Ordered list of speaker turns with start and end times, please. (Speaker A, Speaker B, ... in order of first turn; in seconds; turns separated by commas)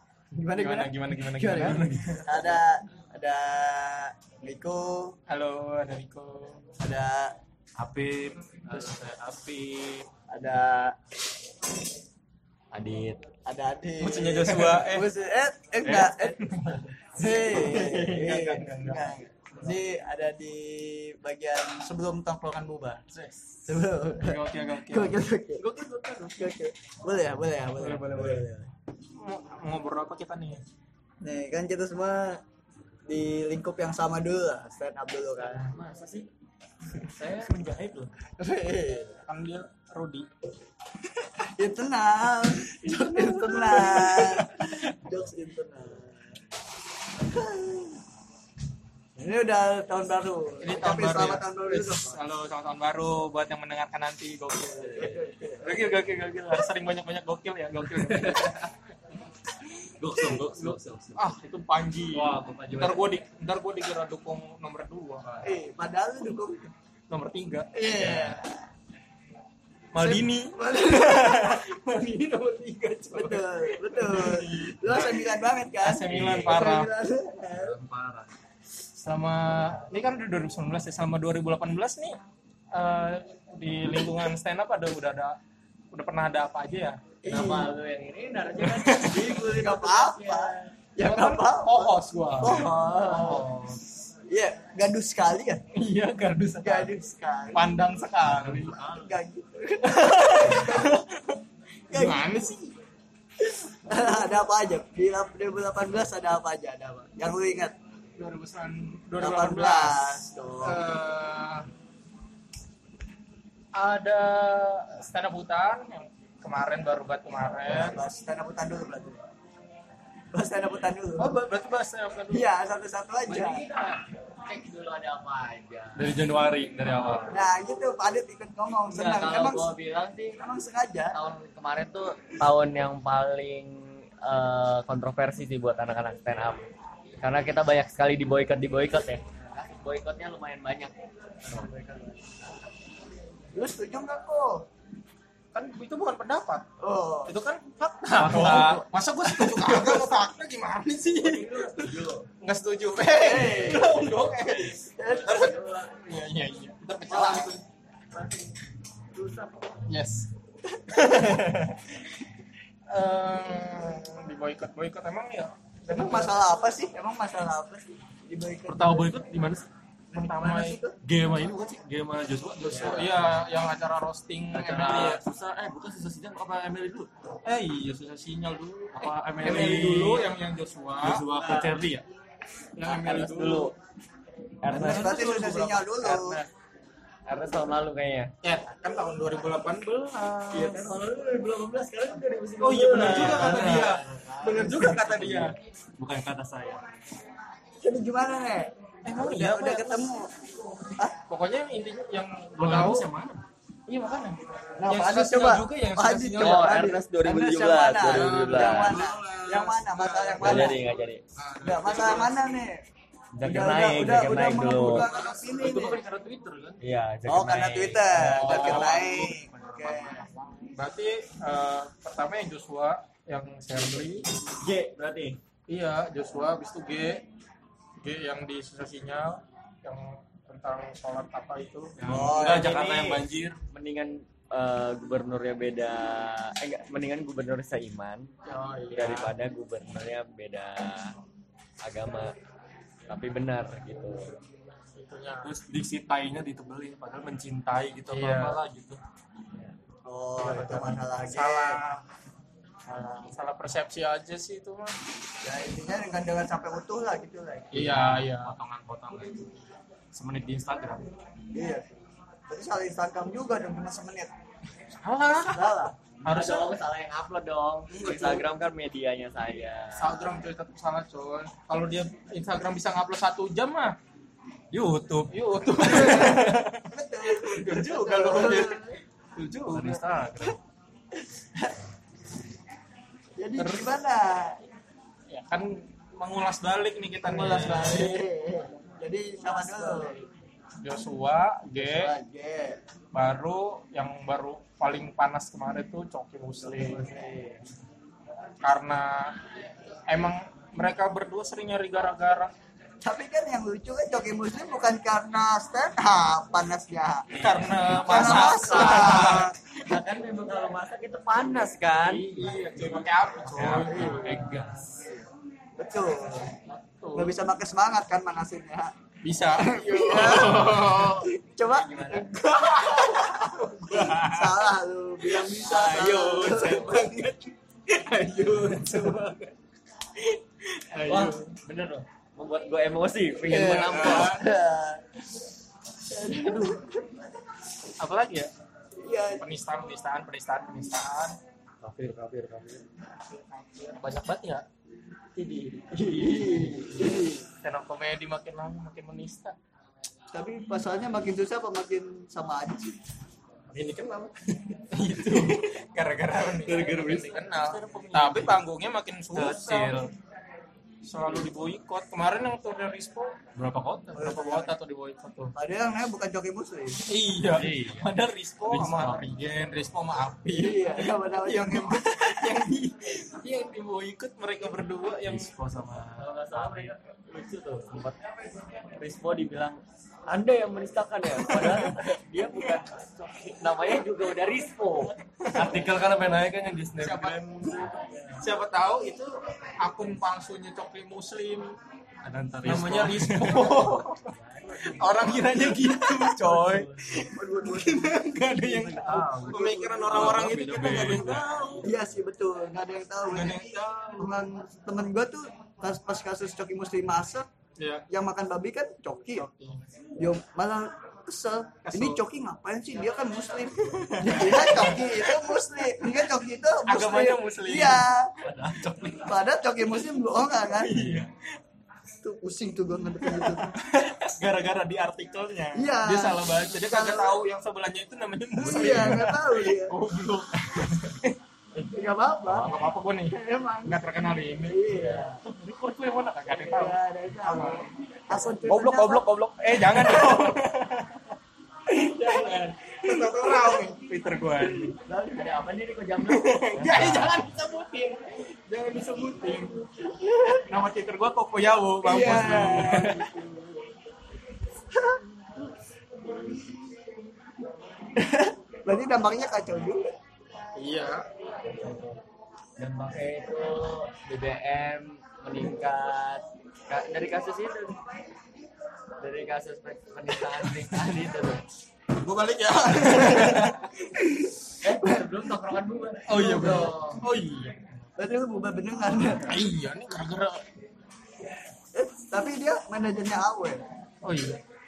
Speaker A: 0.3-5.2, Speaker B: 0.5-2.2, Speaker C: 1.5-2.3, Speaker B: 5.3-6.6, Speaker A: 6.8-7.3, Speaker C: 7.8-10.1, Speaker A: 10.3-11.0, Speaker D: 12.7-13.2, Speaker A: 13.4-16.5, Speaker B: 14.0-15.1, Speaker B: 15.8-19.2, Speaker A: 17.1-23.1, Speaker A: 23.7-25.7, Speaker B: 24.2-26.4, Speaker A: 26.4-28.7, Speaker B: 27.8-28.5, Speaker B: 29.2-30.6, Speaker A: 31.2-32.4, Speaker A: 33.1-35.7, Speaker D: 35.7-36.3, Speaker D: 37.2-38.1, Speaker C: 37.2-38.0, Speaker A: 38.4-39.2, Speaker B: 39.3-40.3, Speaker A: 41.4-46.4, Speaker B: 42.8-44.9, Speaker A: 47.2-48.0, Speaker A: 49.2-52.2, Speaker B: 50.6-58.6, Speaker A: 54.9-55.9, Speaker C: 55.0-56.7, Speaker C: 58.0-58.5, Speaker C: 60.0-61.4, Speaker B: 61.2-65.2, Speaker C: 62.1-63.1, Speaker C: 65.2-65.5, Speaker A: 65.4-66.7, Speaker B: 67.1-68.3, Speaker A: 67.7-68.6, Speaker B: 69.9-76.9, Speaker A: 70.0-71.6, Speaker A: 73.1-77.8, Speaker C: 76.1-76.8, Speaker C: 77.5-78.3, Speaker B: 79.0-82.2, Speaker B: 82.7-85.4, Speaker B: 85.9-87.0, Speaker A: 87.2-87.7, Speaker D: 87.2-90.7, Speaker B: 88.6-89.3, Speaker A: 89.1-93.5, Speaker B: 91.0-92.7, Speaker C: 92.4-93.8, Speaker D: 92.4-93.5, Speaker A: 94.3-95.6, Speaker B: 95.7-97.0, Speaker A: 96.6-97.7, Speaker B: 97.5-98.8, Speaker C: 98.3-98.7, Speaker A: 98.5-101.0, Speaker D: 98.7-99.1, Speaker B: 99.8-101.4, Speaker A: 101.9-102.3, Speaker B: 101.9-102.7, Speaker A: 103.4-107.8, Speaker B: 108.2-111.7, Speaker A: 109.2-110.9, Speaker B: 113.8-118.0, Speaker A: 117.7-119.2, Speaker A: 120.3-121.4, Speaker B: 121.2-122.5, Speaker A: 122.3-123.6, Speaker D: 123.3-126.2, Speaker C: 126.0-127.4, Speaker D: 126.9-127.2, Speaker A: 127.3-129.8, Speaker D: 128.9-130.4, Speaker A: 130.4-131.2, Speaker D: 131.1-136.6, Speaker D: 137.2-140.9, Speaker D: 141.4-141.7, Speaker A: 141.5-142.2, Speaker A: 143.5-144.7, Speaker B: 145.5-146.7, Speaker A: 146.8-147.3, Speaker B: 147.3-157.6, Speaker C: 148.2-148.8, Speaker A: 148.3-150.1, Speaker D: 151.2-152.3, Speaker A: 153.0-155.6, Speaker D: 155.0-155.9, Speaker A: 157.1-157.6, Speaker D: 157.1-157.5, Speaker D: 158.1-158.6, Speaker D: 159.2-159.6, Speaker B: 159.9-160.3, Speaker B: 160.9-162.0, Speaker B: 162.9-166.4, Speaker A: 165.9-169.1, Speaker C: 168.7-169.7, Speaker A: 170.1-171.0, Speaker B: 170.2-170.8, Speaker C: 171.0-173.3, Speaker D: 172.7-173.0, Speaker B: 172.7-175.2, Speaker C: 174.5-177.1, Speaker B: 177.4-181.2, Speaker C: 179.0-180.3, Speaker C: 181.0-182.1, Speaker D: 181.4-181.7, Speaker B: 182.8-183.7, Speaker D: 182.8-183.8, Speaker D: 184.6-186.5, Speaker C: 184.7-185.1, Speaker A: 184.7-186.4, Speaker D: 187.3-188.3, Speaker B: 188.4-190.9, Speaker D: 190.5-194.9, Speaker B: 192.6-195.6, Speaker C: 193.0-194.1, Speaker C: 194.8-196.8, Speaker A: 197.8-200.3, Speaker B: 199.1-200.0, Speaker B: 201.3-203.1, Speaker C: 202.6-203.4, Speaker B: 203.9-206.9, Speaker A: 204.8-210.9, Speaker D: 206.4-209.0, Speaker B: 208.0-212.4, Speaker D: 210.4-211.2, Speaker A: 211.6-212.8, Speaker D: 213.4-215.0, Speaker A: 213.4-216.0, Speaker C: 214.8-216.8, Speaker B: 214.8-215.5, Speaker D: 216.8-218.1, Speaker A: 217.3-220.3, Speaker B: 218.2-224.3, Speaker C: 218.3-220.0, Speaker D: 224.6-225.4, Speaker B: 225.7-227.2, Speaker B: 228.0-232.2, Speaker C: 232.0-233.6, Speaker A: 232.0-233.2, Speaker D: 233.7-238.3, Speaker B: 238.4-239.3, Speaker D: 238.9-241.1, Speaker D: 241.8-242.3, Speaker D: 243.1-244.4, Speaker B: 244.9-245.5, Speaker C: 245.4-249.0, Speaker B: 248.1-248.6, Speaker A: 250.1-251.8, Speaker B: 250.8-252.0, Speaker B: 252.9-254.9, Speaker A: 255.4-257.9, Speaker B: 257.7-258.6, Speaker C: 257.7-259.4, Speaker C: 260.1-261.1, Speaker A: 261.5-261.9, Speaker A: 262.5-264.3, Speaker B: 264.9-266.8, Speaker A: 265.5-265.9, Speaker D: 266.2-270.1, Speaker A: 267.9-268.5, Speaker B: 270.0-274.0, Speaker C: 274.7-276.7, Speaker B: 275.3-276.8, Speaker A: 275.9-276.4, Speaker A: 276.9-279.0, Speaker B: 277.4-278.9, Speaker B: 279.4-280.0, Speaker C: 279.4-280.6, Speaker A: 281.4-281.7, Speaker A: 283.4-284.6, Speaker B: 283.6-283.9, Speaker B: 285.3-288.2, Speaker A: 287.2-290.2, Speaker D: 289.5-290.3, Speaker B: 290.8-292.1, Speaker A: 291.8-292.8, Speaker B: 293.1-297.0, Speaker D: 296.6-297.6, Speaker A: 296.8-297.3, Speaker B: 298.6-299.4, Speaker B: 300.1-302.5, Speaker A: 303.0-309.6, Speaker C: 307.4-308.4, Speaker B: 307.4-309.5, Speaker D: 308.3-312.6, Speaker B: 312.1-314.4, Speaker C: 312.4-312.9, Speaker C: 313.5-314.8, Speaker A: 313.9-315.2, Speaker D: 313.9-314.8, Speaker A: 315.8-316.5, Speaker B: 316.9-317.3, Speaker A: 317.1-318.9, Speaker B: 319.2-321.3, Speaker A: 319.6-327.2, Speaker D: 321.6-322.3, Speaker B: 322.3-324.7, Speaker B: 325.4-329.5, Speaker D: 325.6-327.1, Speaker C: 328.5-329.1, Speaker B: 330.8-331.5, Speaker D: 331.1-334.4, Speaker A: 333.4-335.0, Speaker B: 333.8-334.4, Speaker A: 336.1-337.1, Speaker B: 336.4-336.8, Speaker B: 338.0-338.5, Speaker A: 339.0-339.5, Speaker B: 339.4-341.4, Speaker D: 341.9-342.7, Speaker C: 341.9-342.6, Speaker B: 343.3-344.7, Speaker A: 345.4-347.5, Speaker B: 347.6-349.6, Speaker A: 350.3-353.0, Speaker C: 353.7-354.3, Speaker B: 354.9-360.0, Speaker C: 355.0-355.6, Speaker D: 356.6-358.6, Speaker C: 356.7-358.6, Speaker C: 359.3-360.1, Speaker B: 361.1-363.4, Speaker C: 363.6-364.2, Speaker B: 364.1-365.5, Speaker A: 364.1-364.8, Speaker A: 365.6-367.0, Speaker B: 367.1-375.5, Speaker C: 367.5-369.3, Speaker A: 370.5-372.2, Speaker C: 375.3-376.9, Speaker D: 376.2-378.2, Speaker D: 378.9-385.1, Speaker B: 381.4-382.1, Speaker B: 385.4-385.9, Speaker C: 385.5-388.0, Speaker B: 387.0-391.8, Speaker D: 388.0-388.4, Speaker C: 392.2-393.8, Speaker B: 392.6-401.9, Speaker D: 393.6-397.1, Speaker A: 397.3-398.2, Speaker C: 398.6-401.8, Speaker A: 399.5-407.5, Speaker B: 403.3-404.3, Speaker B: 407.8-408.1, Speaker A: 408.1-409.5, Speaker B: 409.4-409.8, Speaker A: 410.2-418.3, Speaker B: 411.9-412.2, Speaker B: 414.0-415.6, Speaker B: 416.9-418.1, Speaker C: 418.4-419.4, Speaker A: 419.2-421.2, Speaker B: 420.7-421.3, Speaker C: 420.9-421.3, Speaker A: 422.2-423.8, Speaker B: 423.2-431.3, Speaker A: 425.8-427.4, Speaker A: 428.6-430.0, Speaker A: 431.8-434.0, Speaker B: 432.5-434.8, Speaker A: 434.6-435.4, Speaker D: 434.9-435.2, Speaker B: 435.6-437.9, Speaker C: 436.0-436.3, Speaker A: 436.5-439.3, Speaker B: 438.6-441.4, Speaker A: 440.0-440.4, Speaker B: 441.9-445.0, Speaker A: 443.1-443.8, Speaker A: 445.1-445.6, Speaker D: 445.3-447.3, Speaker B: 446.3-449.9, Speaker C: 446.9-447.3, Speaker B: 450.7-453.3, Speaker A: 452.0-453.9, Speaker A: 454.9-455.2, Speaker A: 458.1-460.1, Speaker B: 460.8-461.3, Speaker D: 461.6-462.2, Speaker D: 462.8-468.0, Speaker D: 469.2-471.6, Speaker B: 472.1-473.9, Speaker A: 473.0-474.5, Speaker D: 474.8-477.2, Speaker B: 476.2-478.1, Speaker A: 478.2-479.6, Speaker B: 479.4-480.6, Speaker A: 481.9-483.9, Speaker B: 484.2-484.6